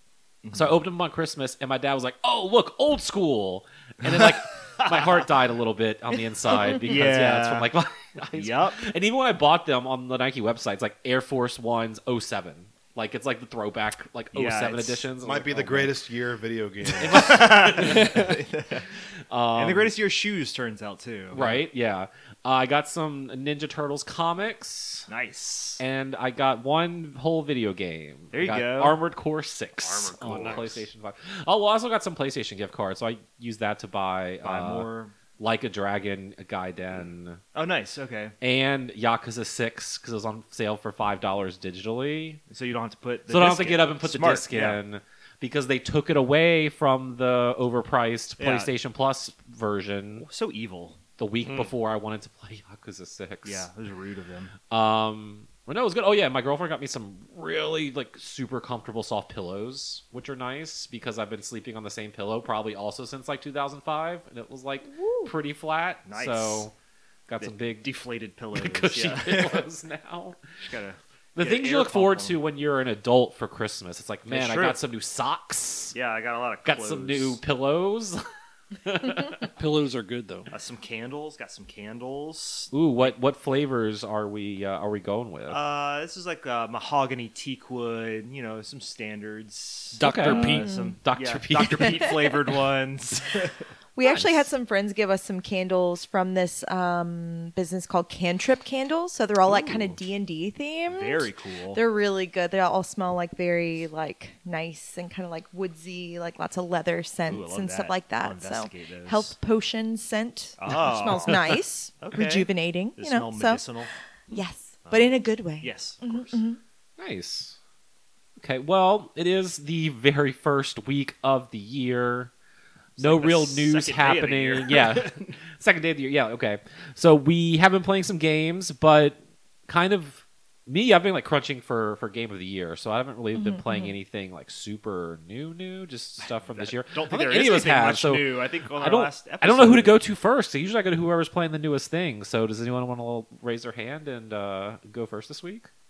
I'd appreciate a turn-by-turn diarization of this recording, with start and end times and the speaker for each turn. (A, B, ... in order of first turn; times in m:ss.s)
0:00.4-0:00.7 A
0:00.5-0:15.9 B
0:04.1-0:05.2 A
0:06.5-0:07.7 A
0:08.3-0:08.8 A
0:14.3-0:15.0 A
0:15.2-0:17.4 C
0:17.0-0:18.3 B
0:17.0-0:18.9 A
0:19.3-0:19.9 B
0:19.5-0:21.6 A
0:21.3-0:25.1 B
0:25.1-0:25.8 A
0:25.8-0:34.9 B
0:28.3-0:29.0 A
0:29.8-0:30.8 D
0:30.1-0:30.7 A
0:34.4-0:35.1 A
0:35.4-0:37.4 B
0:37.5-0:38.3 A
0:38.4-0:42.4 B
0:42.5-0:44.8 A
0:43.3-0:50.3 B
0:48.4-0:48.7 A
0:50.2-0:51.0 A
0:51.2-0:53.7 B
0:53.4-0:54.5 A
0:54.7-1:06.7 B
1:04.9-1:05.3 E
1:06.1-1:06.6 A
1:07.3-1:07.9 B
1:07.4-1:09.6 A
1:08.5-1:10.4 B
1:10.6-1:12.4 A
1:11.3-1:15.9 B
1:14.3-1:14.8 A
1:15.9-1:17.4 A
1:16.6-1:18.2 B
1:18.8-1:19.5 B
1:19.6-1:20.5 D
1:20.5-1:23.1 A
1:22.7-1:25.6 B
1:25.5-1:33.6 A
1:30.0-1:30.8 D
1:30.0-1:32.5 B
1:30.6-1:30.9 E
1:34.0-1:53.6 E
1:39.5-1:39.9 A
1:40.9-1:41.8 A
1:47.3-1:49.3 A
1:50.6-1:53.9 A
1:54.3-1:56.6 E
1:54.8-1:56.4 A
1:57.0-1:57.6 B
1:58.4-2:02.3 B
2:03.0-2:25.7 B
2:03.0-2:05.3 A
2:13.4-2:13.9 E
2:16.2-2:20.0 A